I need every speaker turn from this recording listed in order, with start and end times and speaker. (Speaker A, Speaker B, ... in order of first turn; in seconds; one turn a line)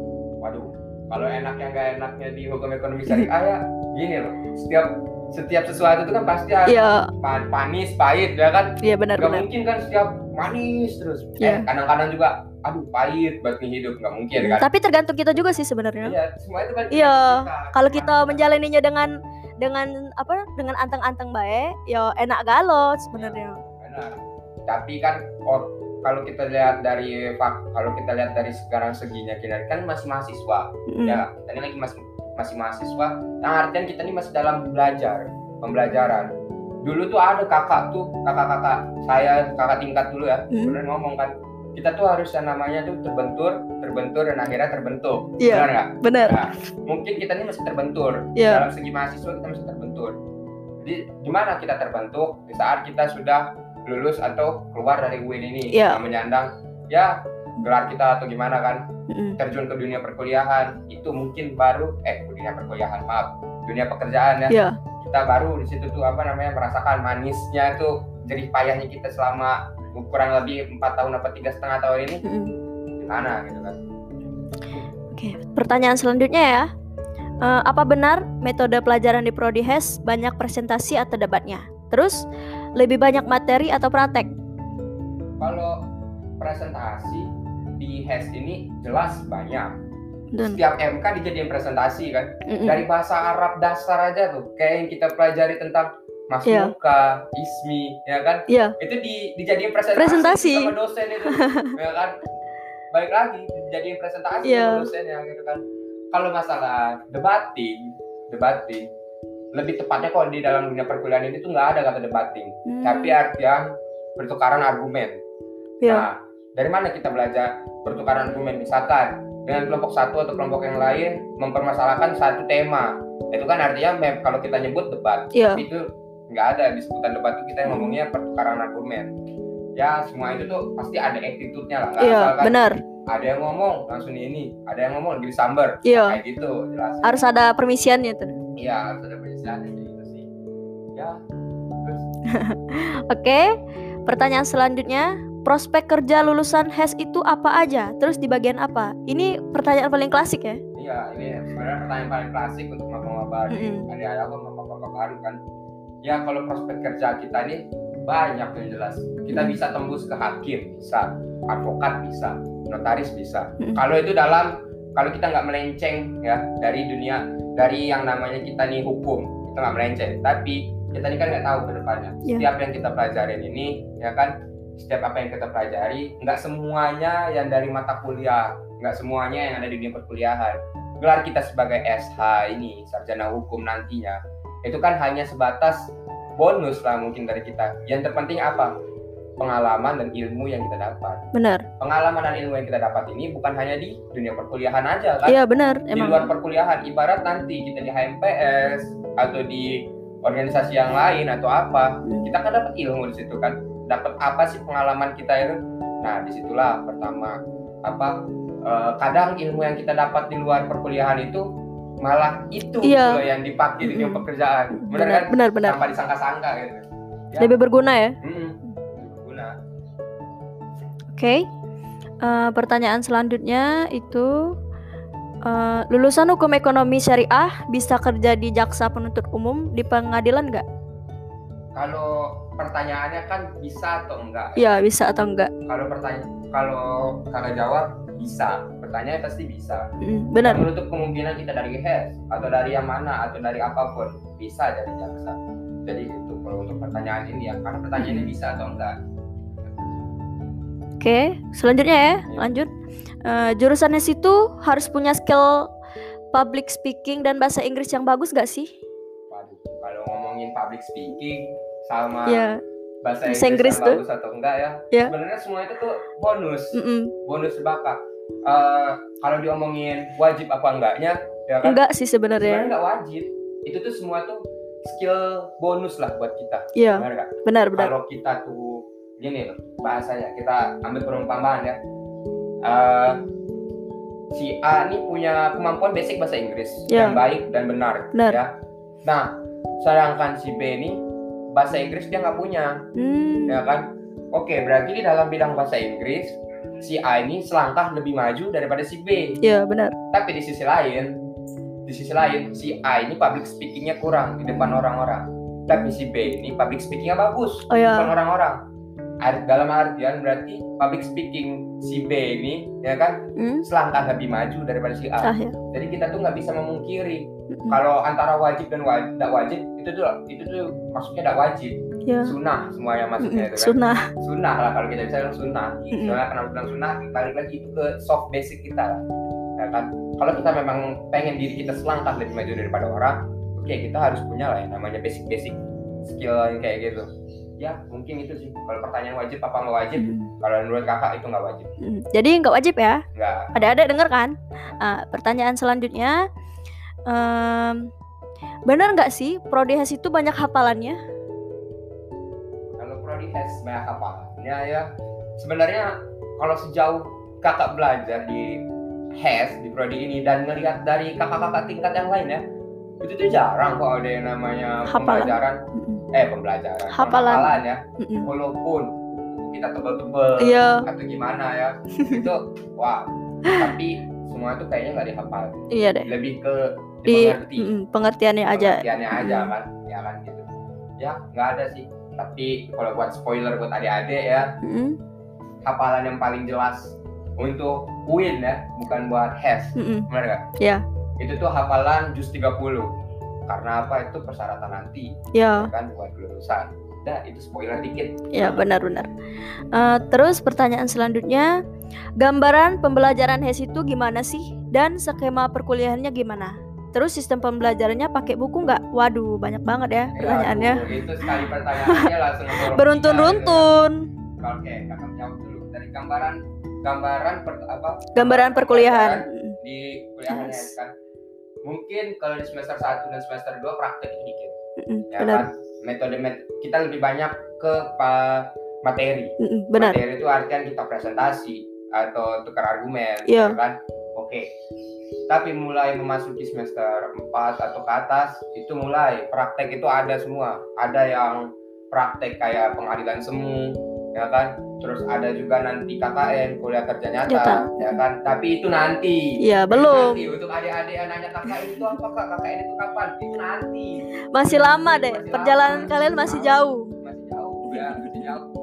Speaker A: 0.4-14.7
Speaker B: 6.7-7.1
Speaker B: 8.8-9.4
Speaker B: 11.4-11.7
Speaker B: 14.4-16.1
Speaker A: 16.0-18.4
Speaker B: 16.9-23.6
Speaker A: 23.1-36.3
Speaker B: 30.9-31.2
Speaker A: 36.8-50.1
Speaker B: 40.5-40.8
Speaker B: 45.4-46.4
Speaker B: 48.4-48.6
Speaker A: 50.8-58.8
Speaker B: 55.7-56.0
Speaker B: 59.1-59.4
Speaker A: 59.4-72.2
Speaker B: 64.5-64.8
Speaker B: 72.2-72.5
Speaker A: 73.0-73.8
Speaker B: 75.1-76.7
Speaker B: 77.4-82.2
Speaker B: 82.8-84.3
Speaker A: 85.4-85.8
Speaker A: 86.4-89.7
Speaker B: 90.3-90.6
Speaker A: 90.4-102.2
Speaker B: 92.5-92.8
Speaker B: 96.5-96.7
Speaker B: 98.5-98.7
Speaker B: 100.0-100.7
Speaker B: 101.3-101.7
Speaker A: 102.9-105.6
Speaker B: 104.4-104.9
Speaker A: 106.1-108.8
Speaker A: 109.5-115.2
Speaker B: 112.7-113.2
Speaker A: 115.8-129.1
Speaker B: 125.3-125.6
Speaker B: 127.7-128.0
Speaker A: 129.8-132.6
Speaker B: 132.0-132.8
Speaker A: 133.1-137.2
Speaker B: 135.8-136.2
Speaker B: 137.0-138.4
Speaker A: 138.6-140.3
Speaker A: 140.9-141.2
Speaker A: 141.8-142.0
Speaker B: 142.3-143.5
Speaker B: 144.1-150.6
Speaker A: 150.7-155.4
Speaker B: 153.5-153.8
Speaker A: 156.0-188.7
Speaker A: 189.4-191.2
Speaker B: 191.3-191.7
Speaker A: 191.8-195.3
Speaker B: 195.2-196.3
Speaker A: 195.9-211.4
Speaker A: 212.0-217.6
Speaker B: 212.8-213.2
Speaker B: 213.8-214.2
Speaker B: 214.8-215.8
Speaker B: 217.4-218.1
Speaker A: 218.2-219.5
Speaker B: 221.2-221.4
Speaker B: 222.2-224.3
Speaker B: 225.4-230.6
Speaker A: 231.7-234.6
Speaker B: 234.6-235.5
Speaker A: 235.7-239.8
Speaker B: 240.0-240.6
Speaker A: 240.4-248.9
Speaker B: 248.0-248.3
Speaker B: 251.0-252.7
Speaker B: 253.2-255.7
Speaker B: 256.3-258.7
Speaker A: 259.3-262.4
Speaker B: 262.3-262.6
Speaker A: 263.0-271.8
Speaker B: 263.2-264.0
Speaker B: 266.7-267.1
Speaker B: 271.6-272.7
Speaker A: 272.4-281.8
Speaker B: 276.7-277.9
Speaker A: 282.6-283.2
Speaker A: 284.3-288.5
Speaker B: 286.9-287.2
Speaker B: 288.1-288.4
Speaker A: 289.1-291.0
Speaker A: 291.5-292.8
Speaker B: 292.9-293.6
Speaker A: 293.5-299.4
Speaker B: 299.4-299.9
Speaker A: 300.1-301.1
Speaker A: 301.9-308.6
Speaker B: 304.5-304.8
Speaker B: 307.7-308.1
Speaker A: 309.2-329.0
Speaker B: 313.4-313.6
Speaker B: 315.2-315.6
Speaker B: 317.5-317.8
Speaker B: 322.1-322.3
Speaker B: 323.2-324.1
Speaker B: 325.9-326.2
Speaker A: 329.6-341.7
Speaker B: 340.0-340.3
Speaker B: 341.8-343.0
Speaker A: 343.1-343.8
Speaker B: 343.5-346.2
Speaker B: 347.1-347.8
Speaker B: 348.7-351.0
Speaker A: 352.8-358.6
Speaker A: 359.2-362.4
Speaker A: 363.0-365.6
Speaker B: 364.9-366.0
Speaker A: 366.1-377.7
Speaker B: 366.9-368.3
Speaker B: 370.4-370.8
Speaker B: 372.0-372.3
Speaker B: 375.7-376.1
Speaker B: 377.1-379.5
Speaker A: 378.5-380.4
Speaker A: 381.0-384.5
Speaker B: 384.6-385.0
Speaker A: 385.6-390.4
Speaker B: 389.8-390.1
Speaker B: 390.6-390.8
Speaker A: 391.2-392.9
Speaker A: 393.5-398.6
Speaker B: 395.3-395.7
Speaker B: 398.3-399.1
Speaker B: 399.7-401.5
Speaker B: 402.2-414.1
Speaker A: 410.1-413.7
Speaker A: 414.4-420.9
Speaker B: 418.1-419.6
Speaker B: 420.3-420.7
Speaker A: 421.6-424.5
Speaker B: 424.8-425.4
Speaker A: 425.1-434.4
Speaker B: 429.4-430.0
Speaker B: 433.2-433.6
Speaker A: 435.3-458.5
Speaker B: 447.2-448.0
Speaker B: 449.4-450.2
Speaker B: 451.5-451.9
Speaker B: 454.3-456.9
Speaker B: 457.7-458.3